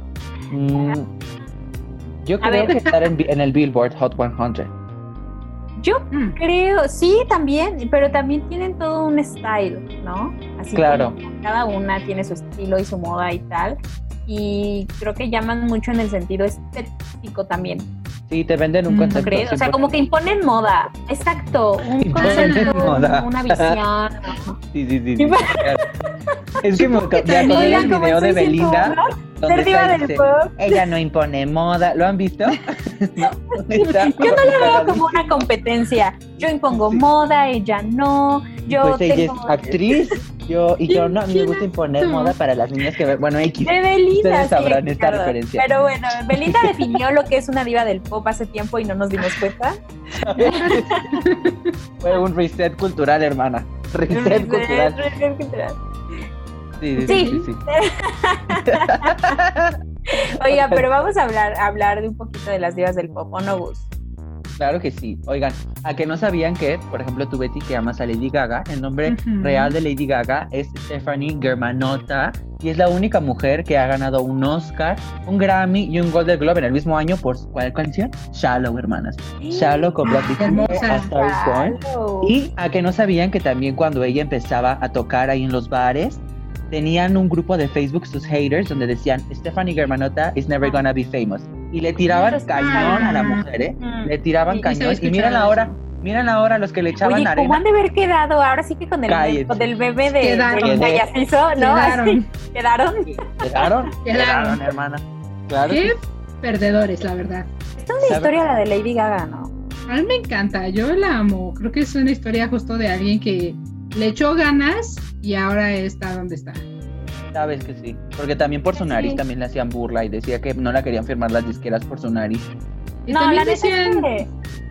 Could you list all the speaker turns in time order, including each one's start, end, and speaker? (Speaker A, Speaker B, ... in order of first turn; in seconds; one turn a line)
Speaker A: 0.5-1.1
Speaker A: 2.2-4.7
Speaker B: 2.4-2.8
Speaker C: 2.7-2.9
Speaker B: 5.8-17.9
Speaker C: 6.1-6.4
Speaker A: 10.7-11.2
Speaker A: 18.3-20.0
Speaker C: 18.9-19.3
Speaker B: 19.1-24.6
Speaker C: 21.8-23.1
Speaker A: 22.0-23.8
Speaker A: 24.7-25.8
Speaker B: 25.2-25.9
Speaker A: 26.6-35.5
Speaker C: 26.7-28.0
Speaker B: 27.4-30.8
Speaker B: 33.8-40.1
Speaker C: 34.2-34.7
Speaker A: 36.4-37.0
Speaker A: 38.6-45.7
Speaker C: 40.9-42.3
Speaker B: 43.6-49.8
Speaker A: 46.5-46.8
Speaker A: 50.1-51.0
Speaker B: 50.4-50.9
Speaker C: 50.5-51.7
Speaker A: 52.0-55.0
Speaker B: 54.1-55.8
Speaker A: 56.8-57.6
Speaker C: 57.0-57.5
Speaker B: 57.0-59.4
Speaker A: 58.5-59.8
Speaker B: 60.1-63.9
Speaker A: 60.4-60.8
Speaker A: 64.6-97.6
Speaker C: 69.0-69.7
Speaker B: 79.4-82.3
Speaker C: 80.0-81.1
Speaker B: 92.1-94.7
Speaker C: 92.6-93.4
Speaker C: 94.6-95.8
Speaker B: 97.0-103.9
Speaker A: 99.1-99.7
Speaker C: 100.2-100.8
Speaker A: 100.5-101.0
Speaker C: 101.5-102.3
Speaker A: 103.2-106.0
Speaker C: 104.0-104.6
Speaker C: 105.6-107.5
Speaker B: 107.8-109.5
Speaker A: 108.0-108.4
Speaker C: 109.9-116.6
Speaker A: 117.3-122.5
Speaker B: 118.7-119.2
Speaker C: 123.0-124.1
Speaker B: 123.1-124.3